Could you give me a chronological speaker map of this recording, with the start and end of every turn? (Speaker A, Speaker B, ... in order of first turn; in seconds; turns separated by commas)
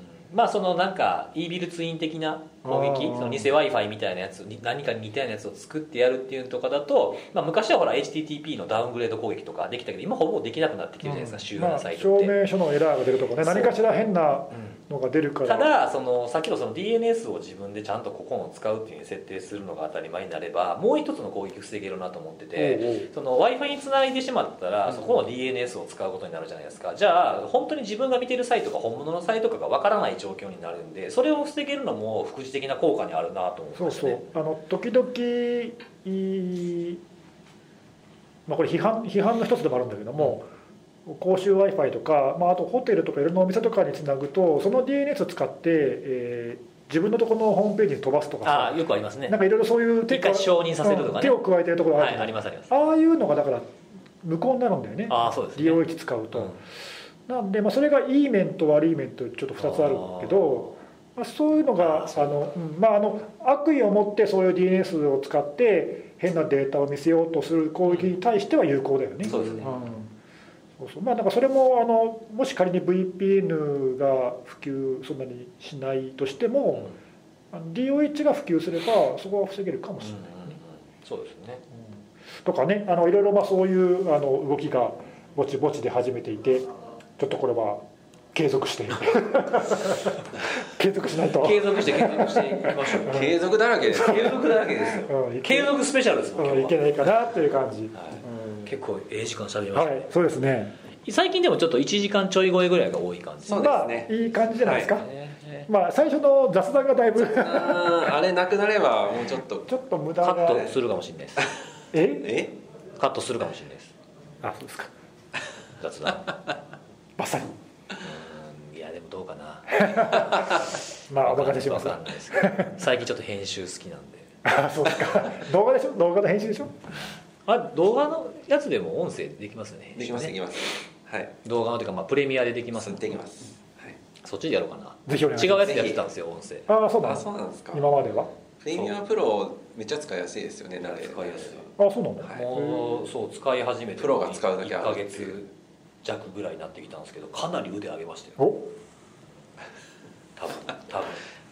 Speaker A: 0.3-12.3, Speaker B: 2.6-3.5, Speaker B: 11.0-15.7, Speaker A: 13.4-13.7, Speaker A: 15.4-34.2, Speaker B: 22.6-23.1, Speaker B: 33.8-37.0, Speaker B: 38.5-40.5, Speaker B: 41.1-56.6, Speaker A: 48.5-49.4, Speaker A: 50.1-51.4, Speaker A: 51.9-52.7, Speaker A: 55.1-55.8, Speaker B: 57.3-70.1, Speaker A: 59.6-60.6, Speaker A: 61.8-62.3, Speaker A: 69.3-69.9, Speaker B: 70.8-76.9, Speaker B: 77.5-80.6, Speaker A: 80.0-81.6, Speaker B: 82.4-86.7, Speaker B: 87.2-95.8, Speaker A: 91.3-93.3, Speaker C: 93.0-95.1, Speaker A: 95.5-96.8, Speaker B: 96.4-98.8, Speaker A: 98.0-100.0, Speaker B: 99.7-100.8, Speaker A: 101.0-103.8, Speaker C: 103.5-104.1, Speaker B: 103.5-105.1, Speaker C: 104.6-104.9, Speaker A: 104.7-105.7, Speaker B: 105.7-108.1, Speaker C: 107.2-109.7, Speaker B: 109.7-110.7, Speaker A: 110.2-111.5, Speaker C: 110.4-110.7, Speaker B: 111.9-112.3, Speaker C: 112.2-112.5, Speaker A: 113.0-113.9, Speaker B: 114.4-114.9, Speaker A: 115.8-116.3, Speaker B: 117.2-117.5, Speaker A: 118.0-120.5, Speaker B: 119.8-122.7, Speaker A: 121.2-124.4, Speaker B: 124.5-126.7, Speaker A: 127.5-130.3, Speaker C: 130.0-131.3, Speaker A: 131.4-133.2, Speaker C: 132.8-134.0, Speaker A: 134.2-136.7, Speaker B: 135.1-136.0, Speaker C: 135.6-136.0, Speaker B: 136.7-138.3, Speaker C: 137.0-137.9, Speaker C: 138.6-141.7, Speaker A: 140.8-141.7, Speaker B: 141.8-143.1, Speaker A: 142.3-145.5, Speaker C: 144.0-145.4, Speaker A: 146.0-148.4, Speaker B: 148.4-148.7, Speaker A: 150.4-151.2